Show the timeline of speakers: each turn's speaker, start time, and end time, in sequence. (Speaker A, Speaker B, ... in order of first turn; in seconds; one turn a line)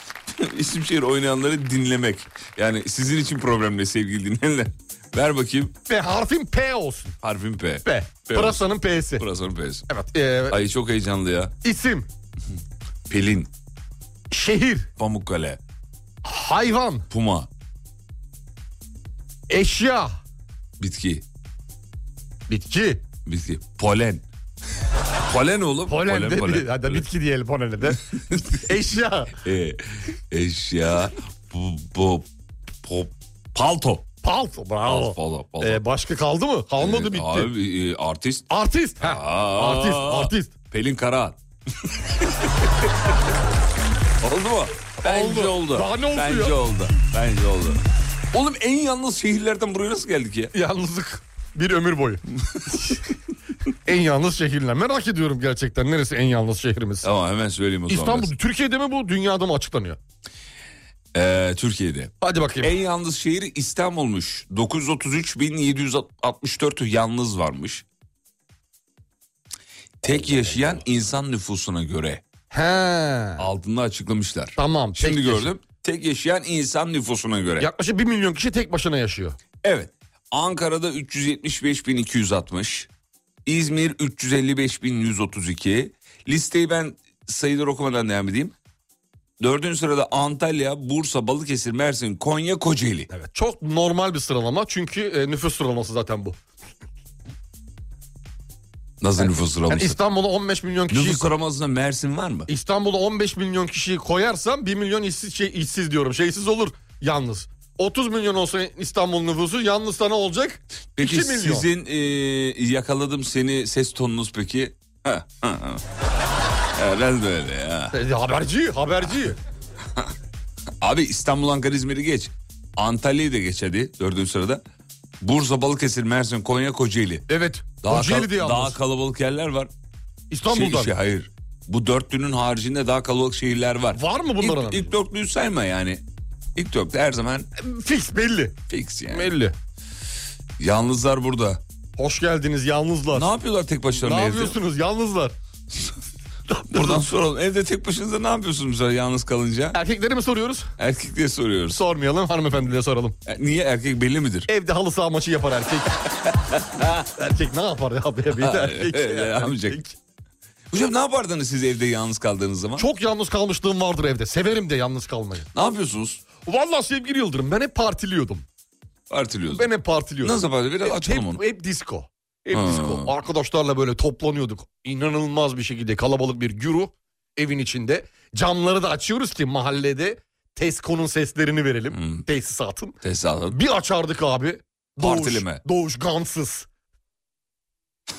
Speaker A: 0.3-5.7
Speaker B: 5.9-7.2
Speaker A: 7.2-9.9
Speaker B: 7.8-9.2
Speaker B: 9.9-10.6
Speaker A: 10.5-11.5
Speaker B: 11.6-12.1
Speaker A: 13.1-13.5
Speaker B: 14.3-14.9
Speaker A: 15.0-15.6
Speaker B: 16.2-17.1
Speaker A: 17.1-17.5
Speaker B: 19.5-20.1
Speaker A: 20.8-21.2
Speaker B: 22.5-23.0
Speaker A: 23.2-24.2
Speaker A: 25.2-27.1
Speaker B: 25.9-28.0
Speaker A: 27.9-28.7
Speaker B: 28.6-29.3
Speaker A: 29.4-32.3
Speaker A: 32.8-34.1
Speaker B: 34.2-37.5
Speaker A: 34.8-35.8
Speaker A: 36.8-38.5
Speaker B: 38.5-40.5
Speaker A: 39.0-43.1
Speaker A: 44.2-50.5
Speaker B: 45.0-46.6
Speaker B: 50.5-53.0
Speaker B: 53.9-57.1
Speaker A: 57.0-58.3
Speaker B: 57.9-60.0
Speaker A: 61.1-67.8
Speaker B: 62.2-62.7
Speaker A: 70.0-72.2
Speaker B: 72.5-73.5
Speaker A: 73.4-77.7
Speaker B: 74.6-75.5
Speaker B: 77.6-79.4
Speaker A: 79.6-82.9
Speaker A: 83.5-88.5
Speaker A: 89.4-93.1
Speaker B: 93.1-96.4
Speaker A: 99.0-100.0
Speaker B: 99.7-101.3
Speaker A: 100.9-102.5
Speaker B: 102.5-111.7
Speaker A: 111.0-115.8
Speaker A: 116.7-118.0
Speaker B: 117.9-119.4
Speaker A: 120.8-124.6
Speaker A: 125.2-127.2
Speaker B: 127.3-128.8
Speaker A: 127.8-129.7
Speaker B: 130.3-130.9
Speaker A: 130.5-136.0
Speaker B: 133.9-134.9
Speaker A: 136.5-137.5
Speaker B: 137.6-138.6
Speaker A: 138.7-139.3
Speaker B: 139.1-139.5
Speaker A: 140.6-141.6
Speaker B: 142.0-143.3
Speaker A: 143.1-144.6
Speaker B: 144.0-145.3
Speaker B: 146.5-147.0
Speaker A: 146.7-149.8
Speaker B: 149.7-150.7
Speaker A: 150.8-151.8
Speaker B: 151.7-153.2
Speaker A: 153.2-154.5
Speaker B: 154.5-156.0
Speaker A: 156.5-157.0
Speaker B: 157.0-159.9
Speaker A: 158.3-159.8
Speaker A: 160.7-162.8
Speaker B: 162.8-165.5
Speaker A: 165.5-166.2
Speaker B: 166.4-168.4
Speaker A: 169.1-169.7
Speaker B: 169.5-183.0
Speaker A: 170.2-171.4
Speaker A: 172.5-173.1
Speaker A: 181.9-182.2
Speaker A: 183.0-183.6
Speaker B: 183.5-186.7
Speaker A: 185.0-185.6